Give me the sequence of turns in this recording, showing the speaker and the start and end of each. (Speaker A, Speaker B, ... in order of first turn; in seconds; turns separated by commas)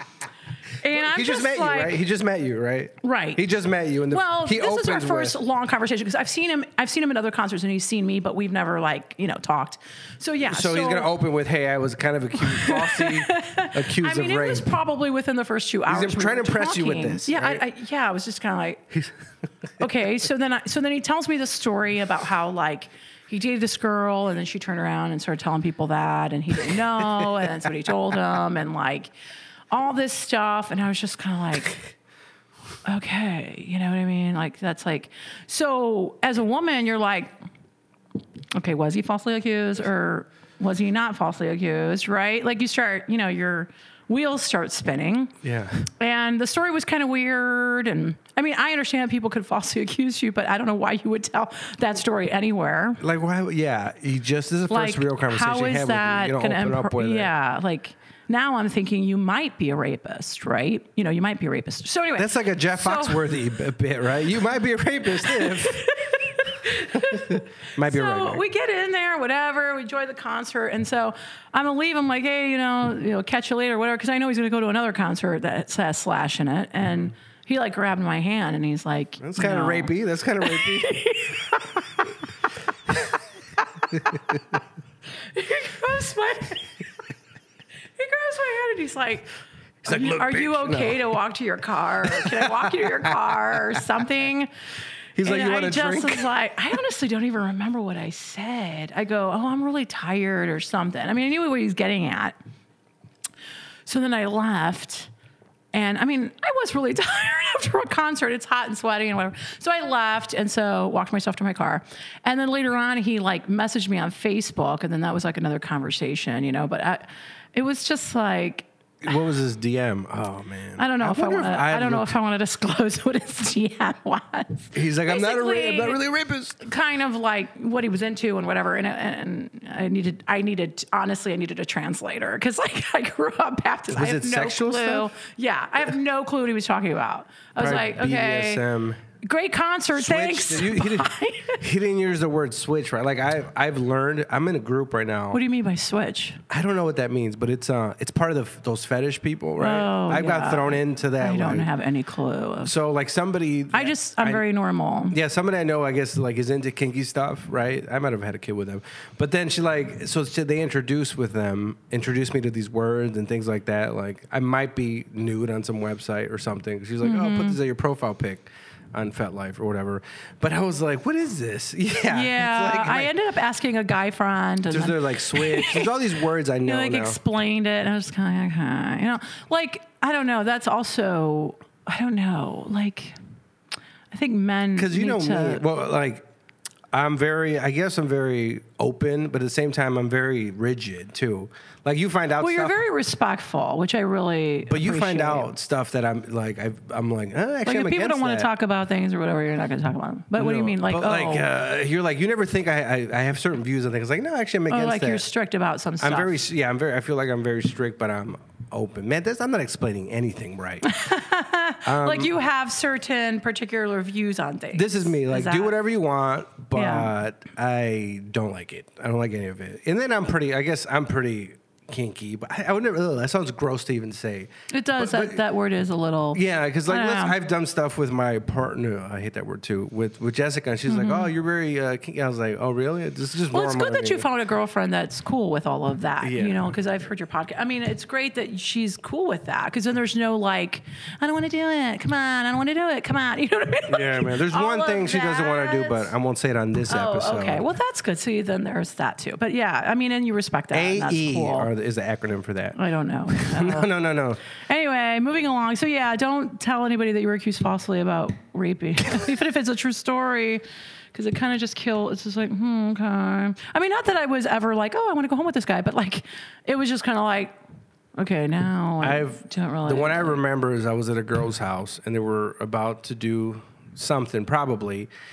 Speaker A: 0.8-2.0, Speaker B: 0.9-5.3, Speaker A: 3.0-3.4, Speaker A: 4.1-11.1, Speaker B: 10.4-14.8, Speaker A: 12.4-18.9, Speaker B: 15.9-17.6, Speaker A: 19.8-29.1, Speaker A: 29.7-31.8, Speaker A: 32.8-37.3, Speaker A: 38.5-45.3, Speaker B: 45.4-45.9, Speaker A: 46.0-53.0, Speaker B: 53.0-57.3, Speaker A: 54.7-63.3, Speaker B: 62.1-65.9, Speaker A: 65.1-82.1, Speaker B: 66.9-68.4, Speaker B: 79.2-81.0, Speaker B: 83.9-84.4, Speaker A: 85.2-86.7, Speaker A: 88.0-89.3, Speaker B: 89.8-91.0, Speaker A: 89.8-94.5, Speaker B: 92.1-93.1, Speaker B: 95.2-96.3, Speaker A: 95.2-102.3, Speaker A: 103.8-105.1, Speaker A: 105.7-118.7, Speaker B: 119.0-122.1, Speaker A: 120.8-126.0, Speaker B: 124.7-126.6, Speaker A: 126.6-138.6, Speaker B: 133.9-135.1, Speaker B: 137.6-139.0, Speaker A: 139.2-141.6, Speaker B: 139.9-145.4, Speaker A: 145.3-146.4, Speaker B: 146.5-151.7, Speaker A: 149.6-152.8, Speaker B: 152.6-154.4, Speaker A: 153.7-155.2, Speaker B: 155.1-173.1, Speaker A: 167.0-167.6, Speaker A: 172.0-175.9, Speaker B: 174.7-177.2, Speaker A: 176.6-183.2, Speaker A: 184.1-185.6, Speaker B: 184.8-186.2, Speaker B: 186.9-192.8, Speaker A: 192.4-195.5, Speaker B: 194.7-198.5, Speaker A: 197.6-201.5, Speaker B: 200.3-205.2, Speaker A: 204.7-206.4, Speaker B: 206.0-210.9, Speaker A: 210.8-215.7, Speaker B: 211.8-212.3, Speaker B: 214.7-225.4, Speaker A: 216.7-217.1, Speaker A: 224.7-227.3, Speaker B: 226.3-234.2, Speaker A: 230.9-231.3, Speaker A: 233.5-246.1, Speaker B: 236.2-236.7, Speaker B: 243.9-247.7, Speaker A: 246.9-251.7, Speaker B: 250.7-254.4, Speaker A: 252.8-253.9, Speaker A: 254.7-267.6, Speaker A: 268.2-270.4, Speaker B: 269.0-275.1